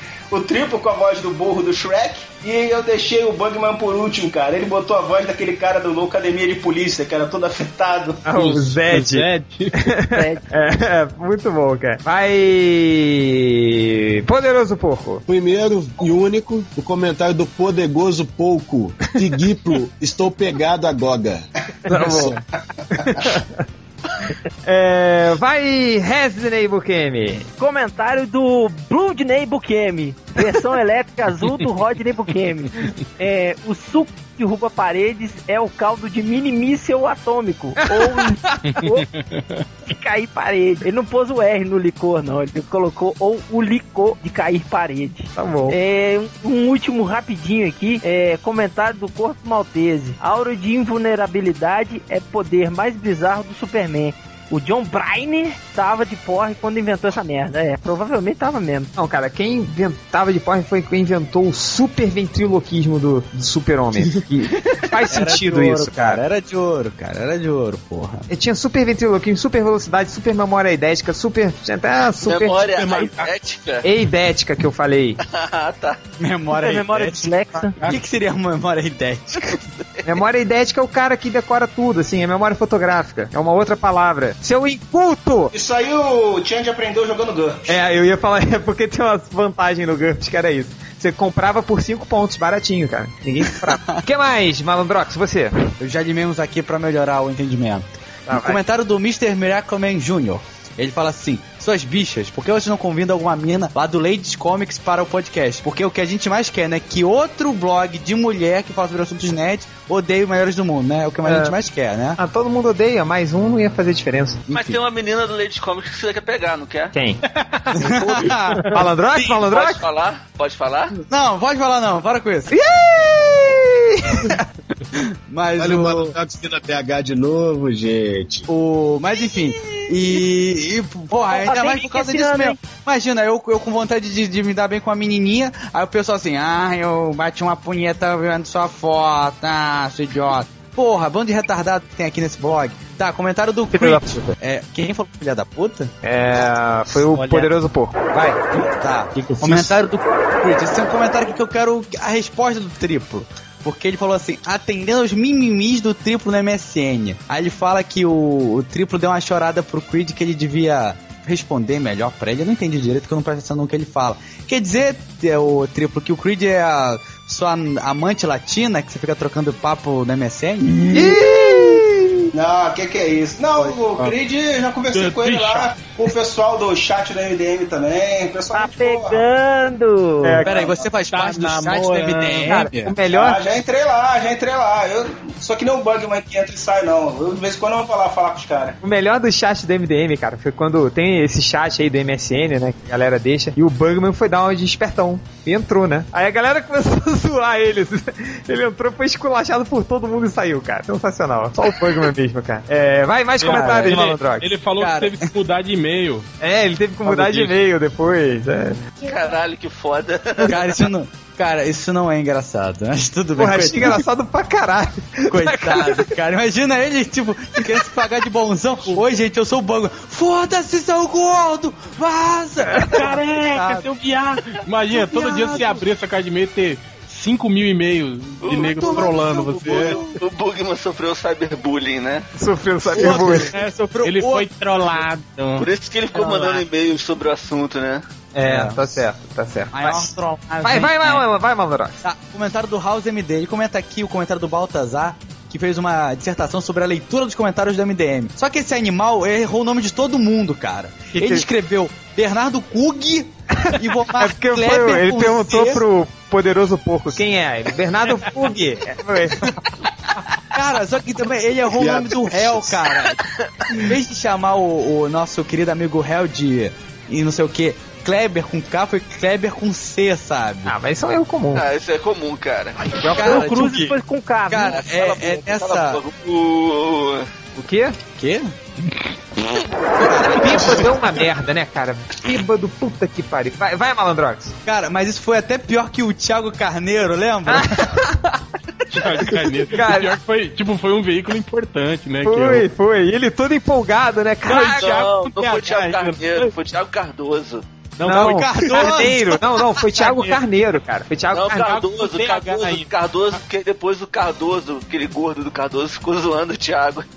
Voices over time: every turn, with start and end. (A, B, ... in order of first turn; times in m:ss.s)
0:00.3-0:08.2 A
0:08.2-0:15.2 B
0:08.3-0:09.9 C
0:10.1-0:10.4 D
0:15.3-0:22.4 E
0:21.9-0:22.4 B
0:22.9-0:23.6 B
0:24.6-0:27.5 B
0:27.6-0:39.0 D
0:37.8-0:38.6 B
0:38.6-0:39.6 C
0:39.8-0:58.9 D
0:45.4-0:45.8 B
0:58.9-1:06.2 B
1:05.1-1:08.2 F
1:08.3-1:12.6 B
1:12.2-1:13.8 G
1:12.7-1:13.3 C
1:13.8-1:15.2 B
1:15.2-1:16.0 G
1:16.2-1:19.6 F
1:16.5-1:17.8 D
1:20.0-1:25.5 B
1:25.5-1:27.8 A
1:27.7-1:35.5 B
1:33.6-1:34.0 F
1:35.8-1:52.2 F
1:38.3-1:38.6 B
1:51.2-1:51.5 B
1:52.2-1:54.4 B
1:54.5-1:54.8 F
1:54.5-1:56.9 G
1:56.9-1:57.2 B
1:57.7-1:59.8 B
1:57.8-1:59.3 F
1:59.4-2:00.9 G
2:01.1-2:02.6 F
2:02.5-2:04.4 B
2:04.9-2:06.1 F
2:05.6-2:08.5 E
2:08.5-2:25.9 F
2:11.3-2:12.6 D
2:23.7-2:24.3 B
2:26.0-2:28.4 B
2:27.1-2:27.5 F
2:28.5-2:51.8 F
2:50.9-2:52.1 B
2:52.3-2:59.2 A
2:54.9-2:55.8 C
2:58.5-3:00.4 D
3:00.2-3:00.5 B
3:00.4-3:03.0 F
3:00.5-3:00.9 A
3:01.1-3:02.5 C
3:02.4-3:03.4 B
3:03.0-3:08.8 A
3:08.8-3:24.5 B
3:23.4-3:26.3 C
3:23.5-3:23.9 F
3:24.8-3:25.3 F
3:26.4-3:28.8 B
3:27.0-3:27.6 C
3:29.0-3:30.6 G
3:30.4-3:34.0 F
3:33.4-3:36.1 B
3:35.3-3:43.8 F
3:42.7-3:43.0 B
3:42.8-3:50.0 C
3:44.9-3:45.8 F
3:48.4-3:52.2 G
3:48.7-3:50.2 F
3:52.4-3:53.5 B
3:52.9-3:55.0 F
3:53.5-3:55.7 C
3:55.6-3:58.0 G
3:58.3-4:00.1 B
3:58.4-3:59.0 F
3:59.7-4:01.2 F
4:00.6-4:02.0 B
4:02.0-4:15.8 F
4:11.1-4:11.4 B
4:13.5-4:19.6 B
4:20.5-4:30.7 F
4:21.7-4:22.8 E
4:30.6-4:31.6 B
4:31.5-4:32.9 G
4:33.0-4:33.9 B
4:33.1-4:33.9 F
4:33.2-4:35.0 D
4:34.5-4:36.0 F
4:34.6-4:37.3 G
4:37.6-4:38.0 B
4:38.2-4:38.5 F
4:40.0-4:41.1 F
4:40.2-4:44.5 B
4:44.6-4:48.0 F
4:47.5-4:48.4 B
4:48.9-4:52.7 C
4:49.7-4:50.1 B
4:52.2-4:54.9 B
4:54.4-4:56.5 C
4:54.7-4:57.6 G
4:58.0-4:59.3 C
4:58.0-4:59.6 F
4:58.0-5:02.0 B
4:59.9-5:00.4 C
5:01.3-5:07.0 G
5:01.9-5:02.8 C